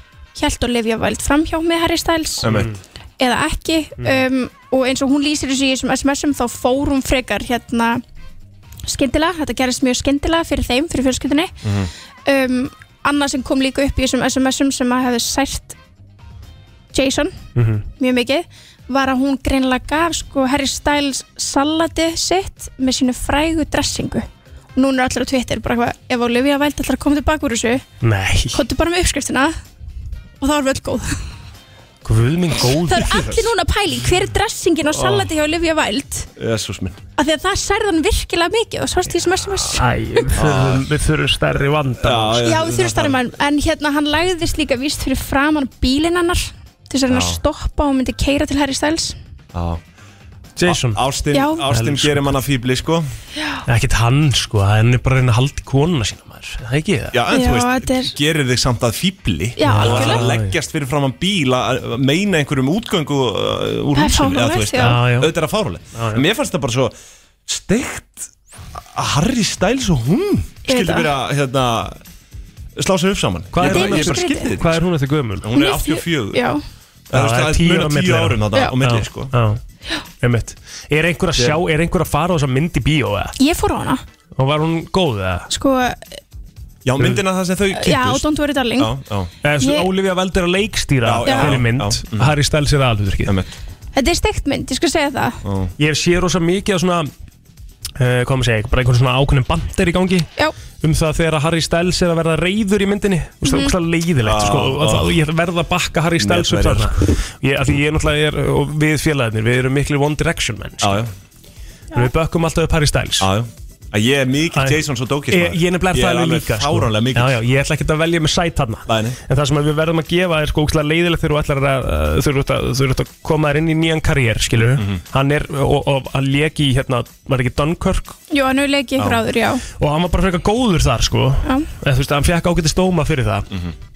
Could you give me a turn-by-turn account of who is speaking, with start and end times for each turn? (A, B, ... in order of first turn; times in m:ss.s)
0:00.4-0:02.5 A
0:02.4-0:02.7 B
0:02.4-0:02.8 C
0:03.2-0:08.0 A
0:08.9-0:11.6 A
0:11.6-0:11.9 B
0:12.3-0:15.8 A
0:16.9-0:17.4 A
0:17.6-0:17.8 C
0:18.0-0:27.8 A
0:28.0-0:28.6 C
0:28.5-0:29.6 A
0:30.4-0:31.2 A
0:32.0-0:33.3 C
0:32.7-0:36.3 A
0:33.0-0:33.4 B
0:34.9-0:35.2 B
0:36.4-0:37.0 B
0:37.2-0:40.3 A
0:39.7-0:42.5 C
0:40.3-0:40.8 B
0:42.0-0:43.2 B
0:42.4-0:49.1 A
0:47.1-0:47.4 B
0:49.5-0:49.8 B
0:50.6-0:51.0 C
0:50.6-0:53.0 B
0:51.3-0:51.6 A
0:51.7-0:52.4 C
0:53.6-0:57.2 C
0:57.1-1:06.9 B
0:57.3-0:58.2 A
0:59.6-1:00.3 A
0:59.6-1:00.6 C
1:03.9-1:05.0 A
1:04.8-1:05.3 C
1:05.9-1:06.2 C
1:07.5-1:12.0 B
1:10.7-1:11.1 A
1:12.8-1:14.8 B
1:13.5-1:15.5 C
1:13.6-1:14.6 A
1:15.4-1:16.5 B
1:15.5-1:16.6 A
1:17.1-1:19.3 B
1:17.1-1:19.6 C
1:20.2-1:23.3 C
1:21.4-1:21.6 B
1:23.4-1:24.0 A
1:24.4-1:25.5 C
1:25.5-1:26.0 A
1:26.8-1:29.3 B
1:27.7-1:28.9 A
1:29.4-1:33.3 C
1:29.6-1:29.9 A
1:31.0-1:32.4 B
1:31.2-1:31.6 A
1:33.3-1:33.5 B
1:34.0-1:35.4 A
1:35.4-1:35.7 B
1:35.8-1:37.1 C
1:38.0-1:40.3 C
1:40.8-1:51.0 C
1:43.4-1:43.8 A
1:44.2-1:45.2 B
1:46.2-1:47.1 B
1:50.8-1:51.1 B
1:51.9-1:53.3 C
1:53.2-1:57.4 B
1:54.6-2:08.2 C
1:58.9-1:59.2 B
2:08.3-2:09.6 A
2:09.0-2:09.2 B
2:09.8-2:13.5 C
2:11.4-2:11.7 A